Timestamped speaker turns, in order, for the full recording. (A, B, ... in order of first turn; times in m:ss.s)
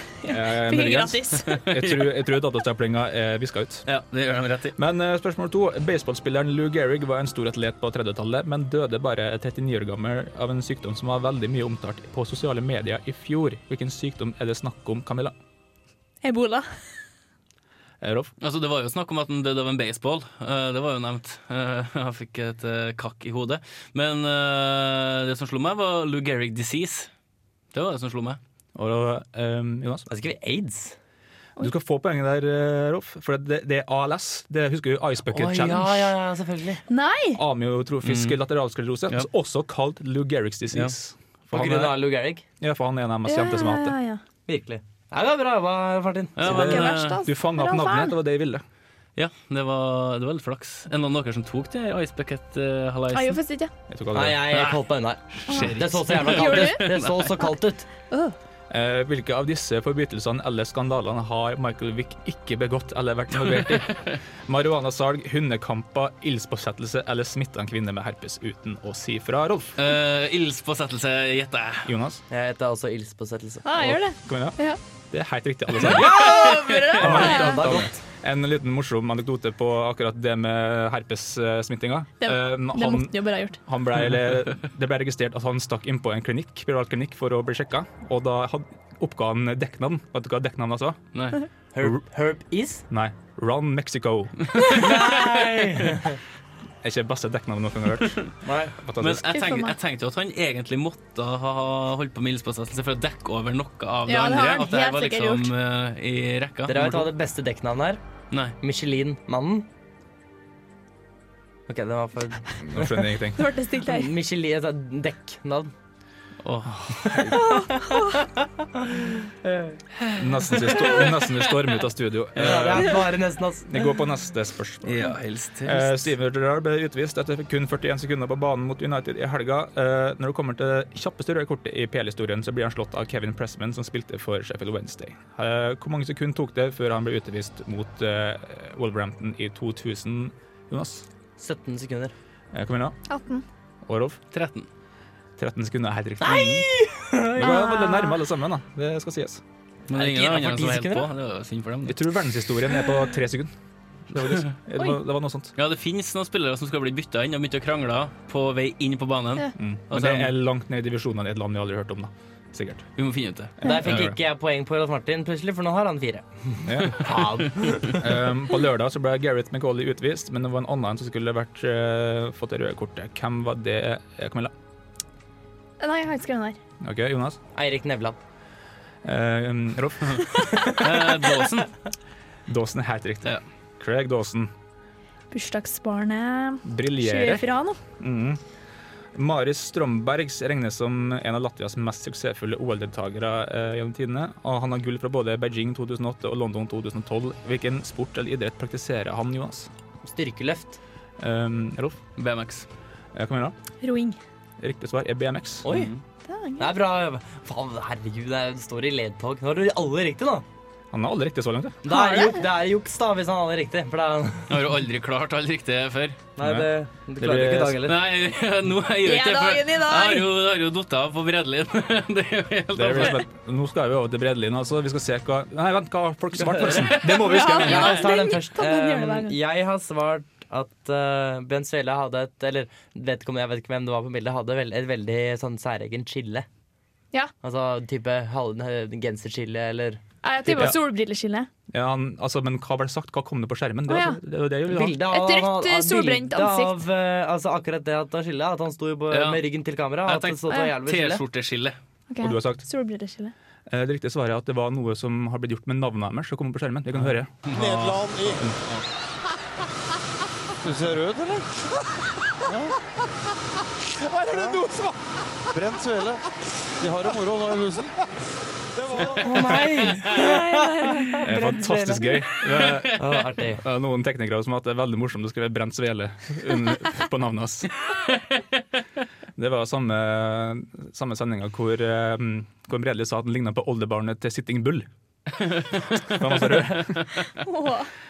0:00.2-0:01.6 A
0:00.3-0:03.8 B
0:01.4-0:02.1 C
0:03.9-0:04.8 C
0:04.8-0:15.4 B
0:16.2-0:16.7 A
0:18.0-0:18.3 B
0:18.4-0:27.1 C
0:27.7-0:28.4 C
0:28.8-0:30.1 B
0:30.1-0:31.0 D
0:31.6-0:36.2 B
0:35.3-0:36.8 D
0:36.9-0:37.4 A
0:37.4-0:42.0 B
0:38.0-0:38.4 C
0:41.5-0:42.4 D
0:42.6-0:44.0 B
0:43.2-0:44.2 A
0:44.5-0:46.5 D
0:46.4-0:47.2 C
0:46.4-0:48.1 A
0:46.5-0:48.6 B
0:49.2-0:53.4 C
0:53.1-0:53.7 A
0:53.9-0:54.7 B
0:54.1-0:57.9 D
0:54.5-0:54.8 C
0:55.4-0:57.4 C
0:55.5-0:57.1 A
0:58.1-0:58.4 A
0:58.7-1:04.0 B
1:03.4-1:04.2 C
1:04.5-1:09.8 B
1:09.8-1:11.9 C
1:11.9-1:12.2 B
1:12.3-1:13.7 D
1:13.6-1:14.8 A
1:13.8-1:14.6 B
1:15.1-1:31.0 B
1:15.8-1:17.7 A
1:15.8-1:17.0 C
1:15.9-1:18.0 D
1:22.2-1:23.6 A
1:31.7-1:32.8 D
1:32.9-1:34.6 B
1:34.7-1:36.2 D
1:36.8-1:38.2 B
1:38.4-1:38.8 D
1:38.8-1:39.3 B
1:39.0-1:47.1 C
1:39.3-1:39.8 A
1:44.1-1:45.5 A
1:46.7-1:48.0 D
1:48.6-1:49.7 D
1:51.7-1:53.1 D
1:52.6-1:53.4 B
1:53.4-1:54.1 A
1:53.8-1:55.7 D
1:56.4-1:57.2 C
1:57.1-1:59.8 D
1:57.3-1:58.2 A
2:00.2-2:03.0 B
2:02.4-2:02.6 C
2:02.4-2:03.8 D
2:03.7-2:05.1 B
2:04.8-2:06.1 C
2:05.6-2:21.1 B
2:21.4-2:22.1 D
2:22.5-2:23.0 B
2:23.1-2:23.4 A
2:23.8-2:24.2 B
2:24.3-2:24.7 C
2:25.4-2:26.7 B
2:26.2-2:27.8 D
2:27.4-2:29.4 B
2:27.4-2:28.2 A
2:29.9-2:32.0 C
2:29.9-2:31.1 D
2:31.9-2:33.5 B
2:34.1-2:35.5 B
2:34.2-2:34.5 C
2:35.6-2:40.3 C
2:39.6-2:42.9 B
2:43.0-2:43.6 C
2:43.6-2:48.0 D
2:43.7-2:44.2 B
2:46.6-2:47.1 B
2:47.1-2:47.9 C
2:48.0-2:54.5 B
2:55.8-2:56.6 A
2:56.8-2:57.4 B
2:57.5-2:58.2 D
2:59.0-3:00.4 B
3:00.8-3:01.7 C
3:02.5-3:04.5 B
3:05.3-3:07.8 A
3:06.6-3:07.5 B
3:08.0-3:08.4 B
3:09.1-3:19.7 B
3:20.0-3:20.8 D
3:21.2-3:22.0 B
3:22.2-3:22.7 C
3:23.1-3:23.6 B
3:23.8-3:24.2 A
3:24.6-3:25.8 B
3:25.6-3:25.9 D
3:25.7-3:26.0 C
3:26.3-3:26.7 A
3:26.6-3:30.4 D
3:30.9-3:31.8 B
3:31.8-3:34.5 D
3:31.9-3:32.5 A
3:34.5-3:36.2 C
3:36.4-3:38.0 D
3:36.4-3:37.8 B
3:37.9-3:43.2 C
3:39.0-3:40.3 A
3:42.7-3:48.1 B
3:46.4-3:56.5 D
3:47.1-3:49.4 A
3:57.4-4:00.0 D
4:00.2-4:01.5 A
4:00.5-4:00.8 B
4:01.7-4:05.0 B
4:03.9-4:04.2 A
4:04.7-4:11.2 D
4:05.0-4:06.8 A
4:09.1-4:09.4 C
4:10.1-4:11.8 C
4:12.1-4:13.3 A
4:12.2-4:12.6 B
4:13.7-4:17.5 B
4:17.5-4:18.0 C
4:17.5-4:18.6 E
4:20.6-4:21.5 E
4:22.5-4:22.7 E
4:24.1-4:25.0 E
4:25.5-4:26.2 E
4:26.8-4:27.9 E
4:28.8-4:29.6 E
4:29.0-4:32.2 D
4:30.2-4:31.2 A
4:31.2-4:33.0 B
4:32.9-4:33.6 D
4:33.6-4:37.7 B
4:38.1-4:38.4 C
4:39.4-4:44.9 B
4:45.4-4:47.0 C
4:46.1-4:47.0 B
4:47.4-4:47.9 A